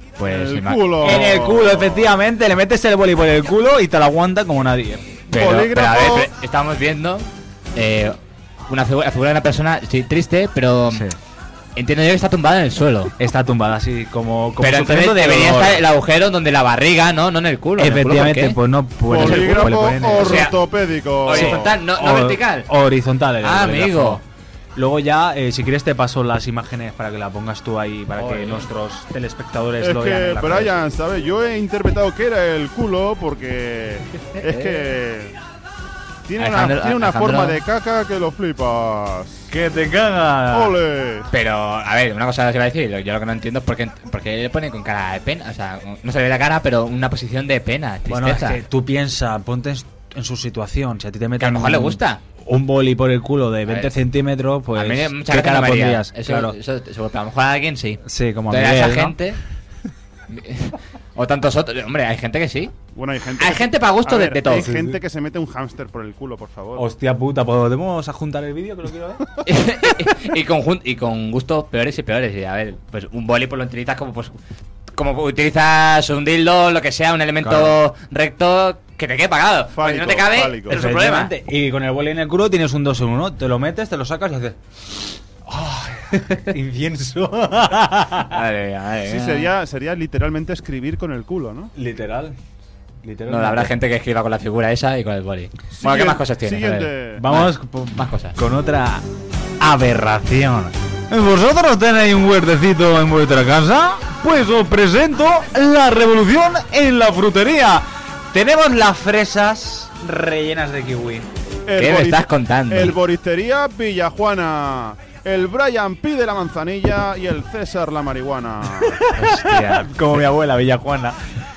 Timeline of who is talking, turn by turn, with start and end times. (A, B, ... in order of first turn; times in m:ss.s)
0:00.2-0:01.3 A
0:00.2-0:02.1 B
0:01.0-0:05.2 C
0:05.3-0:06.3 B
0:05.3-0:11.0 A
0:10.9-0:11.2 C
0:11.8-0:13.1 A
0:13.2-0:15.8 C
0:14.6-0:18.6 A
0:17.8-0:20.5 C
0:19.0-0:21.8 B
0:19.1-0:20.6 A
0:21.2-0:22.7 A
0:21.2-0:24.2 C
0:23.4-0:24.2 A
0:24.8-0:30.8 C
0:28.1-0:28.6 A
0:29.8-0:35.4 B
0:34.4-0:34.9 A
0:36.2-0:39.5 B
0:36.4-0:37.6 A
0:39.5-0:40.8 C
0:40.5-0:41.3 B
0:41.3-0:48.6 A
0:48.1-0:56.5 C
0:51.4-0:52.2 A
0:53.7-0:53.9 A
0:54.7-0:59.4 A
0:58.0-0:59.1 C
1:00.3-1:02.7 A
1:02.9-1:06.9 B
1:03.3-1:04.7 A
1:04.4-1:05.0 C
1:06.7-1:09.2 C
1:09.4-1:14.3 A
1:14.9-1:21.3 A
1:17.4-1:17.8 C
1:19.7-1:20.8 B
1:20.7-1:24.6 C
1:25.4-1:28.4 C
1:28.3-1:29.5 A
1:29.0-1:31.7 B
1:31.8-1:32.4 C
1:33.0-1:33.7 C
1:33.3-1:38.4 A
1:35.8-1:37.2 B
1:37.2-1:39.0 C
1:39.6-1:51.3 C
1:51.6-1:59.0 B
1:51.7-1:53.0 A
1:58.8-2:01.2 C
1:59.2-2:00.2 A